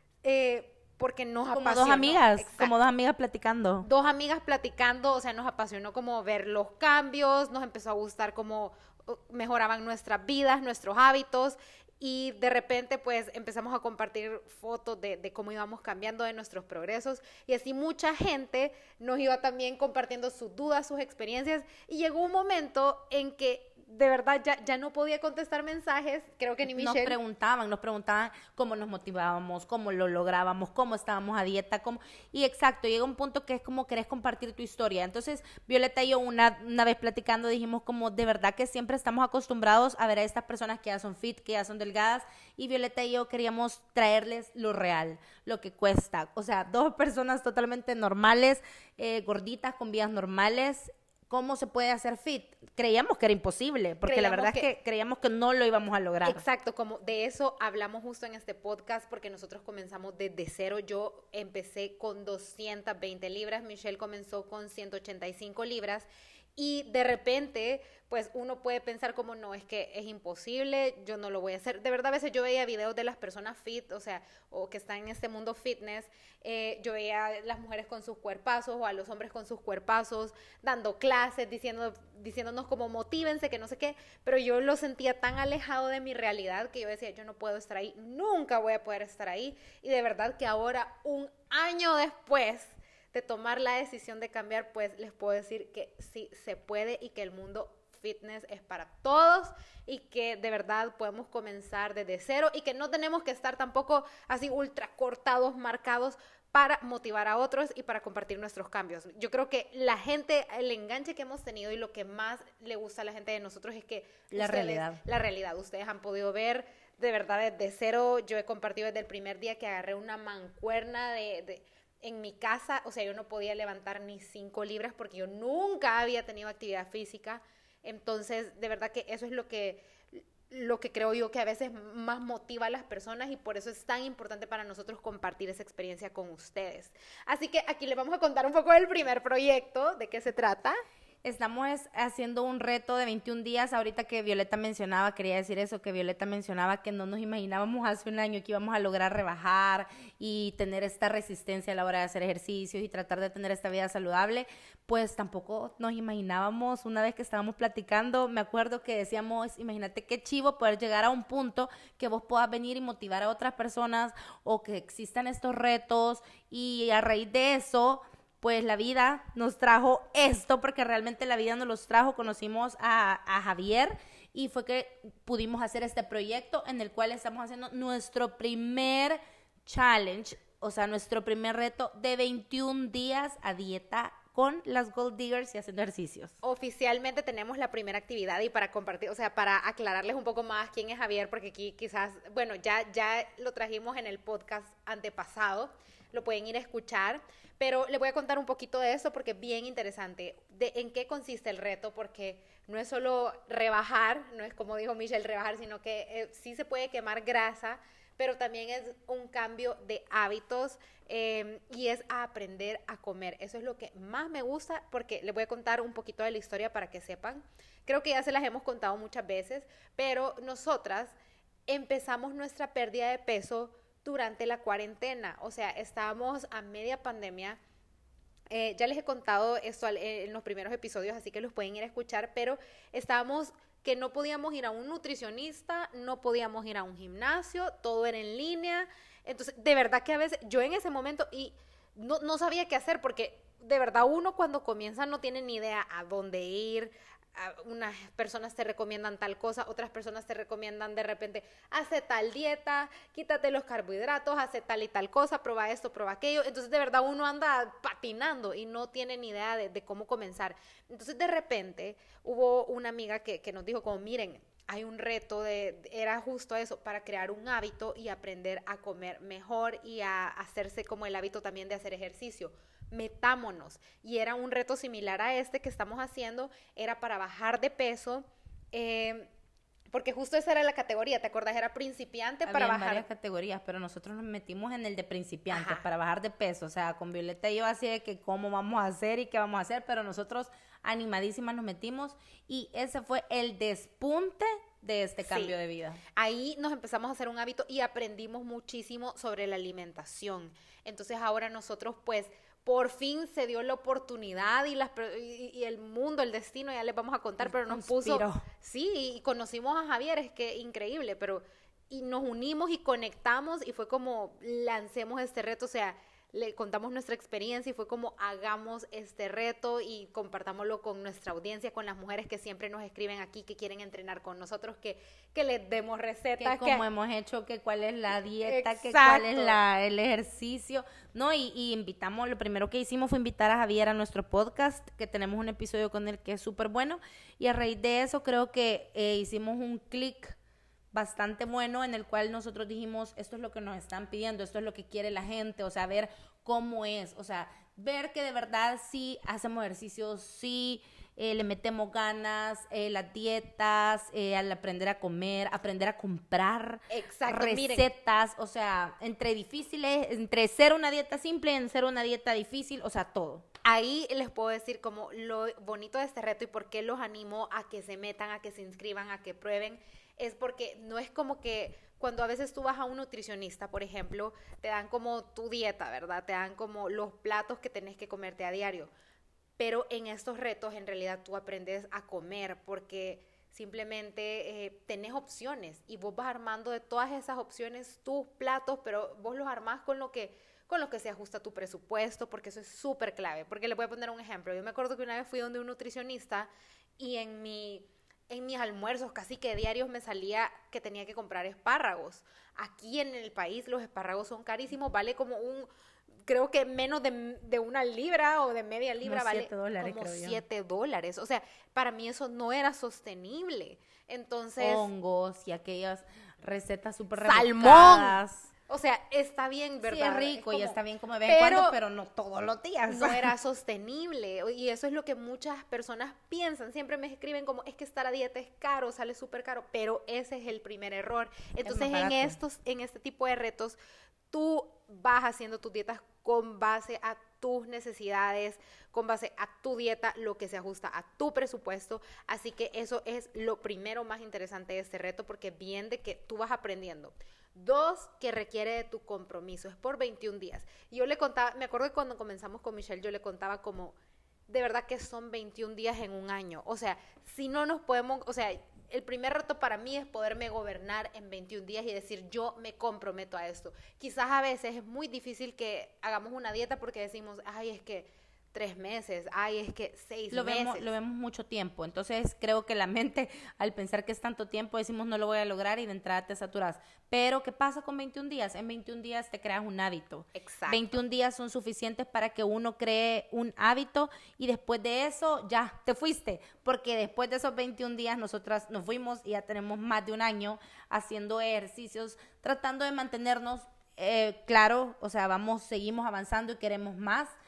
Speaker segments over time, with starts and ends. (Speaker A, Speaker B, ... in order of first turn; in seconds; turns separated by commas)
Speaker A: 0.2-2.9, Speaker B: 1.5-3.9, Speaker A: 3.8-27.2, Speaker B: 26.7-56.4, Speaker A: 54.0-54.7, Speaker A: 56.2-140.8, Speaker B: 114.3-115.0, Speaker B: 141.2-186.3, Speaker A: 186.4-221.2, Speaker A: 221.7-227.6, Speaker A: 228.5-279.3, Speaker A: 279.9-283.1, Speaker B: 282.4-296.0, Speaker A: 285.5-285.9, Speaker A: 295.2-295.5, Speaker A: 296.1-326.9, Speaker B: 307.4-308.4, Speaker B: 326.4-340.4, Speaker A: 328.4-329.6, Speaker B: 340.9-363.5, Speaker A: 356.9-357.9, Speaker A: 363.6-378.9, Speaker A: 379.6-405.7, Speaker A: 406.3-414.9, Speaker B: 409.0-410.4, Speaker B: 414.6-418.5, Speaker A: 417.2-421.8, Speaker B: 419.9-423.3, Speaker A: 422.9-433.8, Speaker B: 431.6-432.4, Speaker A: 434.3-453.9, Speaker A: 454.5-470.9, Speaker B: 470.3-497.3, Speaker A: 480.4-481.0